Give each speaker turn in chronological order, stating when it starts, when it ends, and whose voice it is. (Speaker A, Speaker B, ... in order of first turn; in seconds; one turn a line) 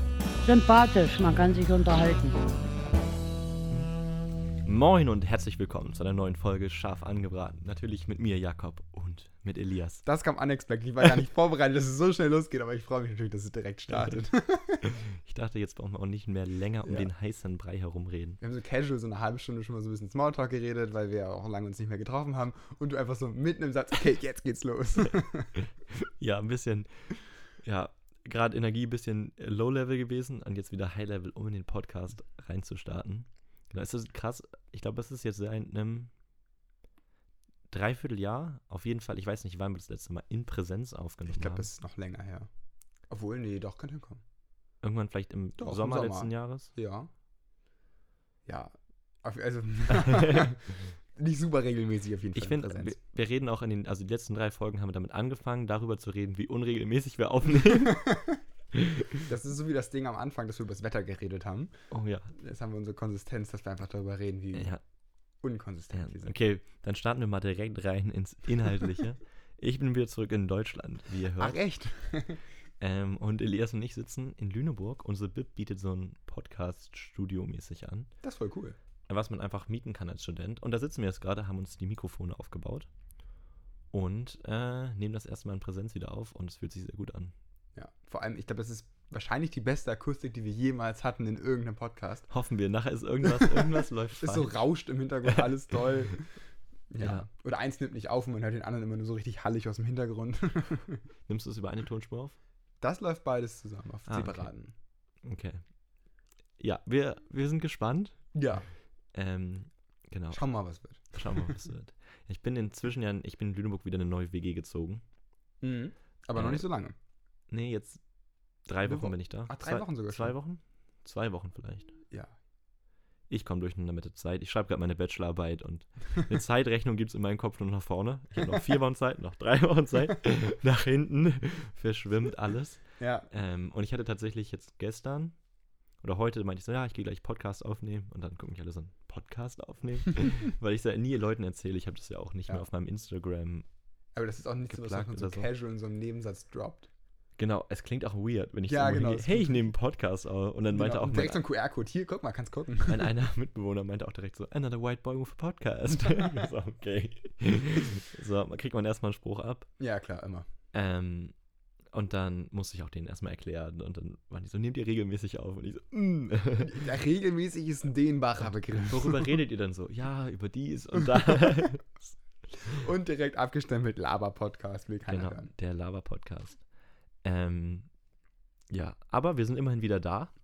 Speaker A: 0.5-2.4
Speaker B: 4.6-10.0
Speaker C: 10.1-14.8
Speaker B: 14.8-18.4
Speaker C: 16.8-17.1
Speaker C: 18.4-25.5
Speaker B: 25.9-36.1
Speaker B: 37.7-41.7
Speaker C: 41.2-42.5
Speaker C: 43.1-44.2
Speaker B: 44.8-46.7
Speaker C: 45.6-47.1
Speaker C: 48.5-53.0
Speaker B: 49.9-50.5
Speaker B: 52.3-58.1
Speaker C: 57.8-58.4
Speaker B: 58.7-59.3
Speaker C: 59.2-61.7
Speaker B: 61.9-62.3
Speaker C: 62.3-64.7
Speaker B: 64.5-64.8
Speaker C: 65.4-66.3
Speaker B: 65.9-71.6
Speaker C: 71.4-72.4
Speaker B: 72.8-78.1
Speaker C: 78.2-78.8
Speaker B: 79.1-82.9
Speaker B: 83.9-87.3
Speaker C: 87.7-92.3
Speaker B: 92.3-94.5
Speaker C: 94.2-96.3
Speaker C: 96.9-101.0
Speaker B: 97.0-97.3
Speaker B: 101.3-102.4
Speaker C: 102.8-104.7
Speaker B: 104.1-104.5
Speaker B: 105.2-105.6
Speaker B: 106.6-108.2
Speaker C: 108.3-108.7
Speaker B: 109.1-110.4
Speaker C: 110.3-111.6
Speaker B: 111.1-115.0
Speaker C: 115.6-117.0
Speaker B: 116.3-116.6
Speaker B: 117.5-118.0
Speaker B: 118.7-121.9
Speaker C: 118.8-120.3
Speaker B: 123.3-135.3
Speaker C: 133.0-133.3
Speaker B: 136.0-143.7
Speaker C: 144.1-146.9
Speaker B: 144.7-145.5
Speaker B: 147.4-151.4
Speaker C: 148.7-149.6
Speaker C: 150.7-153.1
Speaker B: 152.9-159.7
Speaker C: 159.8-160.5
Speaker B: 160.7-161.3
Speaker B: 161.9-166.8
Speaker C: 166.6-169.4
Speaker B: 168.9-171.9
Speaker C: 171.0-171.7
Speaker C: 172.7-175.5
Speaker B: 175.1-176.6
Speaker B: 177.2-177.9
Speaker B: 178.7-180.3